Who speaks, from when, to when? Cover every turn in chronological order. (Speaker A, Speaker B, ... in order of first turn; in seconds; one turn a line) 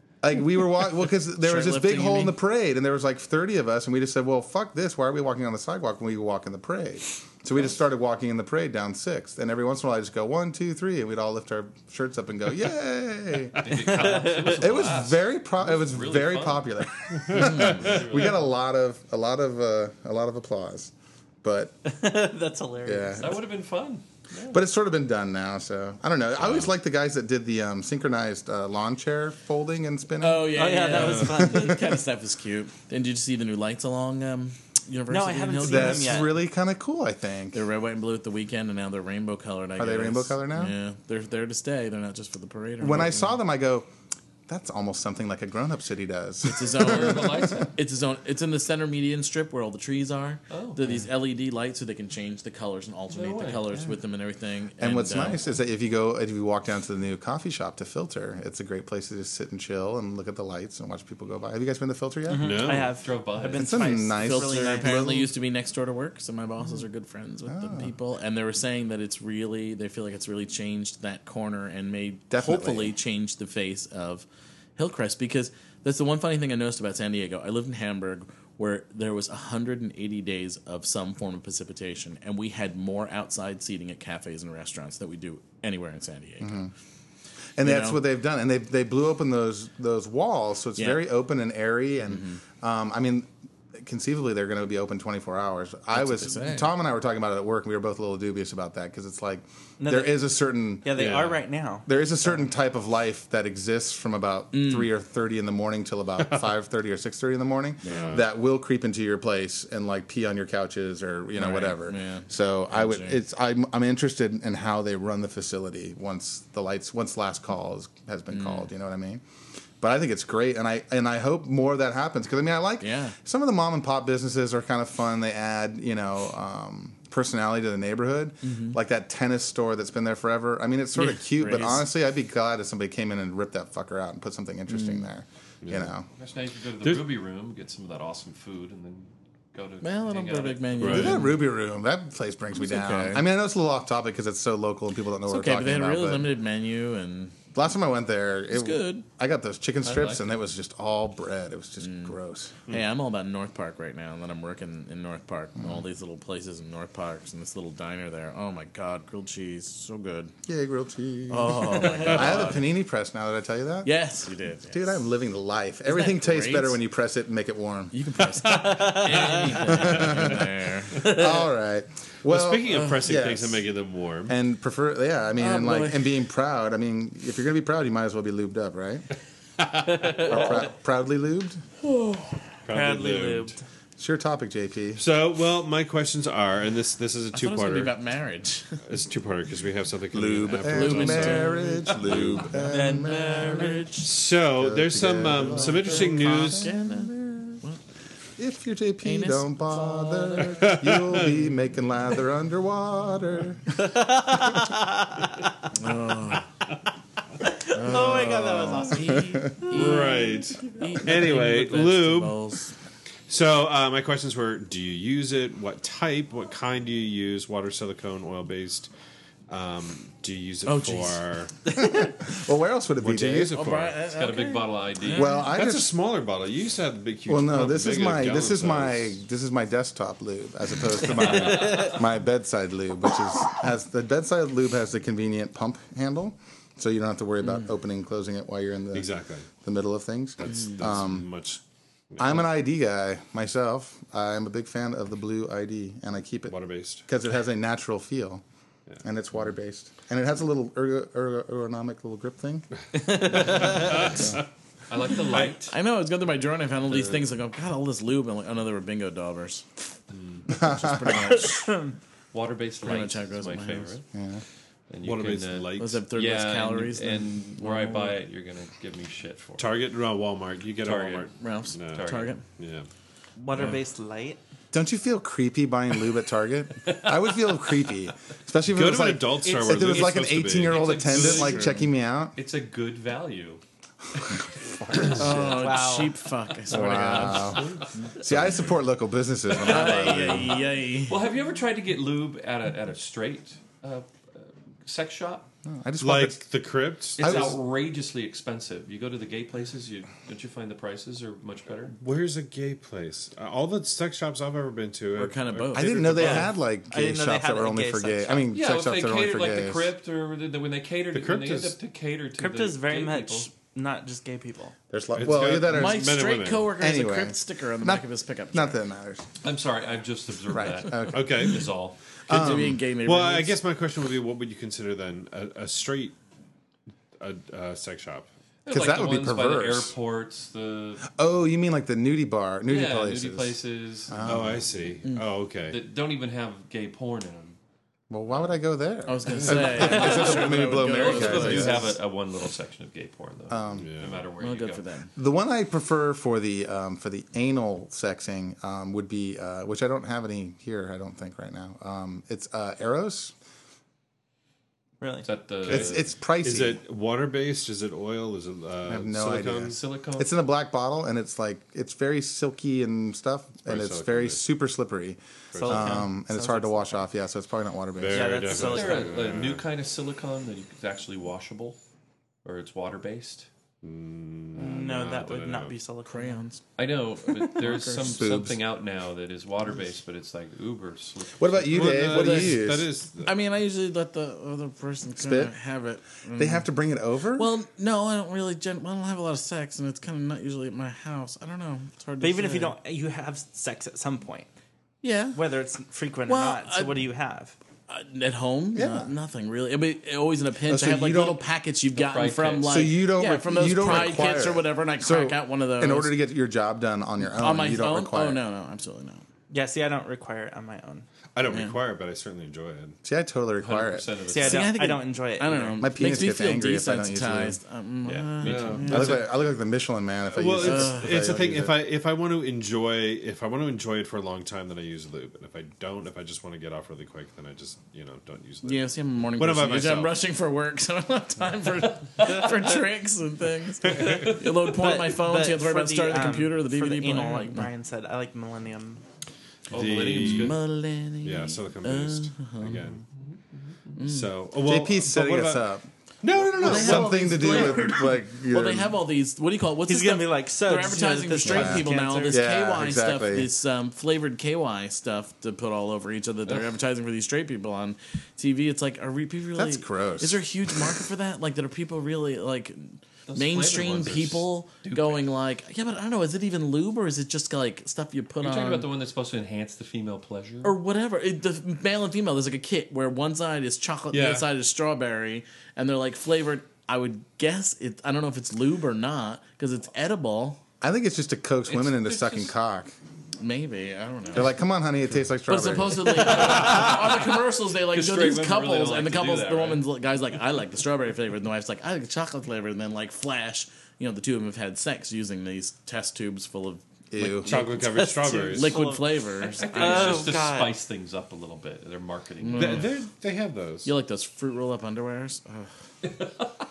Speaker A: 0.2-20.9
Speaker B: 1.4-2.4
Speaker C: 13.6-16.9
Speaker D: 14.0-14.5
Speaker E: 17.2-17.9
Speaker B: 17.3-17.9
Speaker C: 17.6-18.4
Speaker A: 21.4-21.8
Speaker D: 21.8-23.3
Speaker A: 22.8-23.4
Speaker C: 23.2-24.5
Speaker A: 24.5-31.9
Speaker E: 26.4-26.7
Speaker B: 30.2-36.3
Speaker D: 30.5-31.9
Speaker E: 30.9-31.2
Speaker D: 35.1-36.4
Speaker A: 35.6-37.6
Speaker B: 37.5-43.3
Speaker A: 39.8-40.7
Speaker A: 42.8-43.9
Speaker A: 44.5-47.6
Speaker B: 46.5-55.4
Speaker C: 46.8-47.7
Speaker C: 50.5-50.8
Speaker C: 53.1-53.8
Speaker A: 54.8-62.7
Speaker D: 62.3-65.1
Speaker E: 62.4-63.0
Speaker C: 62.9-63.9
Speaker A: 63.5-65.3
Speaker B: 64.2-74.2
Speaker A: 67.5-67.9
Speaker A: 72.3-72.9
Speaker B: 74.8-86.7
Speaker A: 86.4-86.7
Speaker A: 87.6-101.2
Speaker B: 87.6-88.0
Speaker B: 90.8-91.0
Speaker B: 92.1-92.4
Speaker B: 95.9-96.7
Speaker D: 99.8-100.3
Speaker D: 100.8-101.9
Speaker E: 100.9-101.4
Speaker A: 101.8-119.2
Speaker B: 104.5-104.9
Speaker B: 107.8-108.2
Speaker E: 107.8-108.2
Speaker B: 111.3-113.2
Speaker B: 118.3-118.7
Speaker A: 119.8-136.1
Speaker B: 122.8-123.2
Speaker B: 128.4-128.8
Speaker B: 130.9-131.9
Speaker B: 134.7-135.0
Speaker E: 135.6-135.9
Speaker C: 136.1-141.1
Speaker B: 139.8-141.4
Speaker E: 140.8-141.2
Speaker A: 140.9-146.3
Speaker B: 142.5-143.2
Speaker B: 145.3-147.3
Speaker A: 147.5-152.5
Speaker B: 148.5-149.0
Speaker C: 149.8-150.2
Speaker B: 151.8-152.1
Speaker B: 152.7-160.3
Speaker A: 160.4-163.9
Speaker B: 161.3-162.6
Speaker B: 163.8-164.9
Speaker A: 164.7-167.9
Speaker B: 165.8-166.8
Speaker B: 167.9-171.0
Speaker D: 168.4-169.6
Speaker A: 169.6-173.6
Speaker D: 170.9-171.5
Speaker E: 172.3-174.3
Speaker A: 174.3-179.1
Speaker B: 175.4-176.1
Speaker A: 180.0-181.6
Speaker D: 180.0-180.6
Speaker B: 181.8-182.4
Speaker E: 182.7-183.5
Speaker D: 182.7-183.6
Speaker A: 184.0-185.0
Speaker E: 185.0-187.9
Speaker B: 187.3-188.8
Speaker E: 188.8-192.6
Speaker A: 190.1-193.8
Speaker B: 190.6-194.1
Speaker D: 192.6-193.9
Speaker E: 194.0-196.7
Speaker A: 194.6-197.4
Speaker B: 195.7-197.8
Speaker A: 198.4-203.7
Speaker B: 199.0-200.7
Speaker E: 200.6-201.3
Speaker D: 203.8-205.7
Speaker B: 205.7-206.5
Speaker D: 207.4-210.2
Speaker B: 207.7-212.7
Speaker A: 209.3-209.6
Speaker E: 209.6-212.4
Speaker E: 213.3-218.9
Speaker E: 219.5-221.5
Speaker B: 220.6-221.2
Speaker A: 221.7-223.5
Speaker E: 223.0-224.0
Speaker B: 223.5-225.5
Speaker C: 224.1-225.4
Speaker A: 225.1-225.9
Speaker E: 225.4-229.2
Speaker A: 227.3-241.3
Speaker D: 231.2-232.0
Speaker E: 238.9-239.5
Speaker E: 240.4-241.6
Speaker E: 242.1-242.4
Speaker A: 242.2-248.4
Speaker E: 246.5-247.0
Speaker A: 249.0-252.7
Speaker D: 252.9-254.1
Speaker E: 253.5-254.4
Speaker A: 254.0-254.4
Speaker C: 254.9-255.7
Speaker B: 255.7-259.7
Speaker E: 256.9-257.2
Speaker C: 260.1-260.4
Speaker B: 260.5-261.7
Speaker A: 260.5-261.4
Speaker D: 261.4-261.9
Speaker C: 262.3-264.1
Speaker B: 262.8-263.9
Speaker A: 264.1-264.4
Speaker C: 264.9-269.7
Speaker E: 265.0-266.0
Speaker B: 265.8-268.2
Speaker E: 269.6-272.9
Speaker C: 270.8-271.3
Speaker B: 271.4-272.4
Speaker C: 271.9-272.3
Speaker D: 273.4-274.4
Speaker A: 274.7-282.3
Speaker C: 276.8-277.9
Speaker E: 278.7-281.7
Speaker C: 279.4-281.8
Speaker C: 282.3-283.6
Speaker A: 284.6-285.8
Speaker B: 285.1-287.7
Speaker D: 285.4-286.1
Speaker A: 286.7-287.7
Speaker E: 286.8-288.4
Speaker C: 287.6-287.8
Speaker A: 288.2-290.6
Speaker C: 289.5-290.2
Speaker B: 289.6-291.2
Speaker C: 291.1-295.5
Speaker A: 295.6-296.4
Speaker E: 296.0-297.6
Speaker C: 297.2-301.9
Speaker A: 297.2-297.6
Speaker E: 302.0-306.5
Speaker B: 305.1-306.4
Speaker A: 305.7-309.9
Speaker D: 306.9-308.4
Speaker C: 308.5-313.5
Speaker E: 311.1-311.8
Speaker D: 312.4-314.7
Speaker A: 314.9-316.1
Speaker E: 315.1-316.8
Speaker B: 315.6-318.8
Speaker A: 316.8-319.3
Speaker C: 319.4-322.0
Speaker A: 320.5-321.4
Speaker E: 321.1-321.7
Speaker A: 322.3-322.8
Speaker B: 322.3-323.6
Speaker E: 322.3-326.1
Speaker E: 327.2-328.3
Speaker C: 328.6-331.1
Speaker A: 328.7-329.9
Speaker A: 331.1-334.7
Speaker C: 332.6-334.5
Speaker E: 334.2-335.8
Speaker C: 335.7-337.6
Speaker A: 338.1-341.9
Speaker B: 339.1-341.9
Speaker E: 339.4-339.8
Speaker C: 339.8-344.8
Speaker A: 343.5-343.9
Speaker E: 343.7-344.2
Speaker B: 344.4-345.1
Speaker A: 345.1-353.3
Speaker D: 355.0-355.3
Speaker C: 355.2-356.1
Speaker A: 355.7-356.8
Speaker E: 355.7-359.8
Speaker A: 358.9-368.6
Speaker C: 359.7-360.3
Speaker E: 363.6-364.4
Speaker E: 365.5-366.1
Speaker D: 365.6-367.0
Speaker E: 367.9-369.6
Speaker D: 368.1-369.2
Speaker C: 368.5-371.8
Speaker C: 372.4-373.5
Speaker E: 373.8-375.8
Speaker D: 374.5-376.4
Speaker B: 376.1-376.6
Speaker C: 376.8-382.1
Speaker B: 377.5-378.2
Speaker A: 378.0-378.6
Speaker A: 381.4-382.9
Speaker E: 381.7-383.3
Speaker B: 382.1-382.6
Speaker B: 383.2-386.7
Speaker A: 385.2-385.5
Speaker A: 386.3-387.5
Speaker B: 387.3-392.8
Speaker D: 392.2-394.5
Speaker B: 395.0-395.4
Speaker D: 395.3-397.6
Speaker B: 396.3-397.0
Speaker B: 397.9-406.1
Speaker A: 398.7-399.1
Speaker A: 400.7-401.4
Speaker C: 401.9-402.9
Speaker A: 402.6-408.4
Speaker B: 407.2-409.2
Speaker D: 409.5-411.1
Speaker E: 411.3-413.0
Speaker B: 411.5-411.8
Speaker A: 413.0-414.1
Speaker C: 413.6-414.8
Speaker D: 414.3-415.8
Speaker B: 414.4-419.3
Speaker A: 415.8-417.6
Speaker C: 418.0-419.2
Speaker E: 418.4-419.2
Speaker A: 418.9-421.8
Speaker E: 420.3-430.2
Speaker B: 420.6-421.1
Speaker B: 428.6-437.7
Speaker E: 433.8-434.4
Speaker D: 434.1-439.0
Speaker C: 439.7-440.6
Speaker E: 439.7-440.6
Speaker B: 440.2-442.8
Speaker E: 441.2-443.0
Speaker B: 444.0-444.3
Speaker E: 444.0-445.7
Speaker A: 444.6-449.0
Speaker E: 446.2-447.4
Speaker B: 446.6-468.9
Speaker D: 449.9-452.4
Speaker A: 451.4-453.5
Speaker A: 459.6-460.4
Speaker C: 463.3-465.2
Speaker C: 468.4-470.7
Speaker B: 470.6-480.6
Speaker C: 474.1-474.5
Speaker A: 480.8-482.9
Speaker C: 481.7-482.5
Speaker B: 483.4-484.6
Speaker A: 484.3-486.4
Speaker B: 485.5-500.3
Speaker C: 486.4-489.9
Speaker A: 497.1-497.5
Speaker E: 497.4-498.8
Speaker D: 497.9-500.8
Speaker C: 499.4-502.9
Speaker B: 502.4-502.9
Speaker E: 502.5-503.9
Speaker B: 503.8-505.7
Speaker C: 506.0-506.4